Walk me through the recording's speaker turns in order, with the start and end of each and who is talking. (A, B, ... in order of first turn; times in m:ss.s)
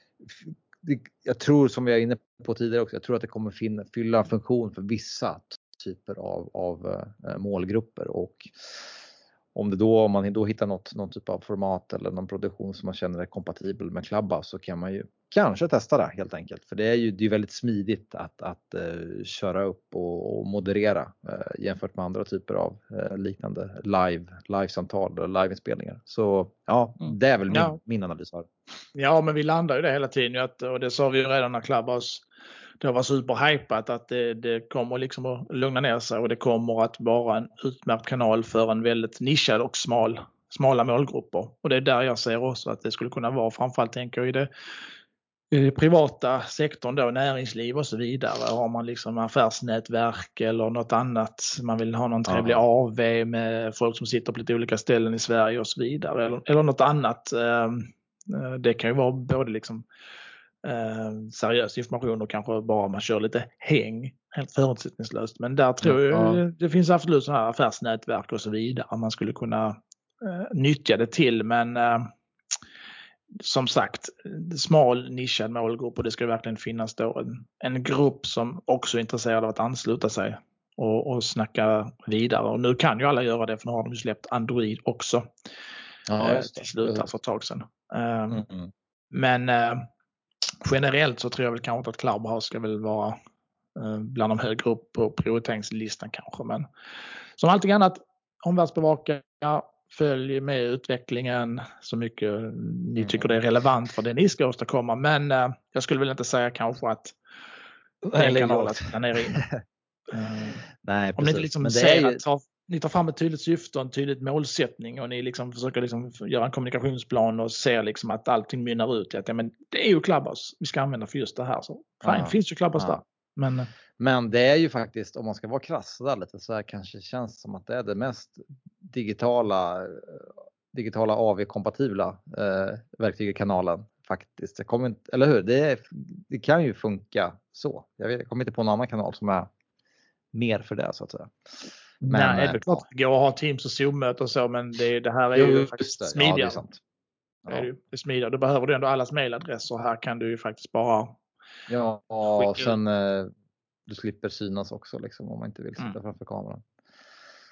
0:00.2-0:08.9 A
0:09.6-0:28.5 A
0:27.0-0:27.8 B
0:29.0-0:32.2 B
0:32.8-0:44.5 B
0:45.5-0:59.8 B
0:52.3-0:52.6 A
1:00.6-1:12.1 B
1:05.8-1:06.4 A
1:13.4-1:25.3 B
1:26.1-1:27.1 A
1:26.2-1:28.4 B
1:28.3-1:28.7 A
1:29.1-1:29.8 B
1:30.6-1:33.2 B
1:33.8-1:36.7 B
1:37.4-1:47.2 B
1:43.0-1:43.3 A
1:48.0-1:49.6 A
1:48.1-1:49.4 B
1:50.1-1:50.6 B
1:50.8-1:52.2 A
1:51.2-2:03.7 B
2:02.0-2:03.0 A
2:04.0-2:19.5 A
2:20.3-2:22.8 A
2:22.0-2:26.6 B
2:25.4-2:26.8 A
2:27.5-2:31.2 B
2:31.7-2:33.3 A
2:32.3-2:32.8 B
2:33.9-2:36.7 A